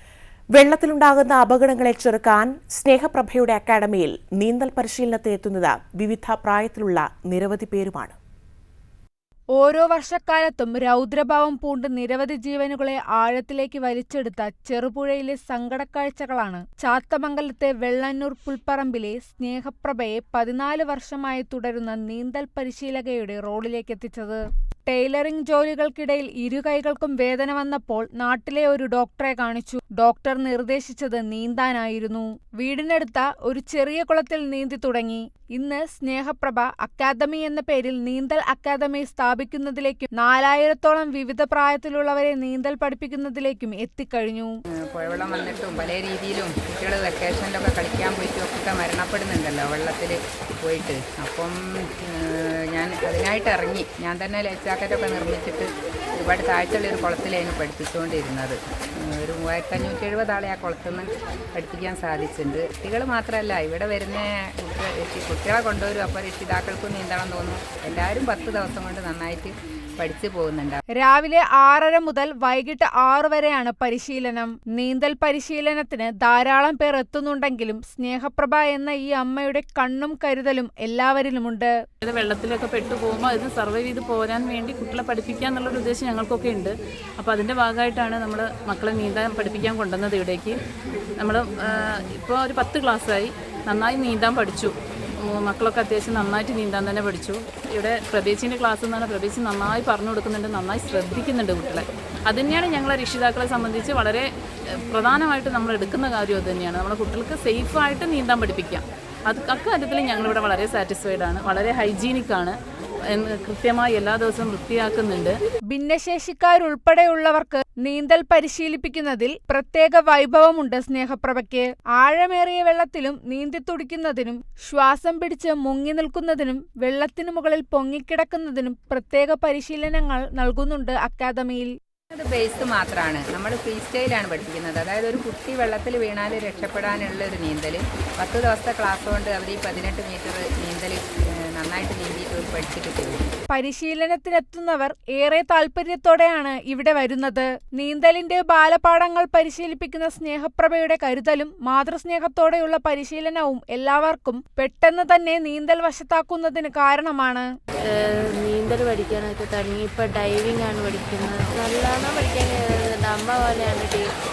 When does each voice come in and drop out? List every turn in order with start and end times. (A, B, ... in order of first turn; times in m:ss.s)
0:00.5-0:08.1 A
0:09.5-0:44.5 B
0:44.8-1:10.8 C
1:11.0-1:21.7 B
1:22.0-1:30.6 D
1:31.2-1:52.5 D
1:53.1-1:55.3 D
1:55.7-2:11.7 B
2:12.1-2:23.3 C
2:23.5-2:37.5 B
2:37.9-2:44.1 E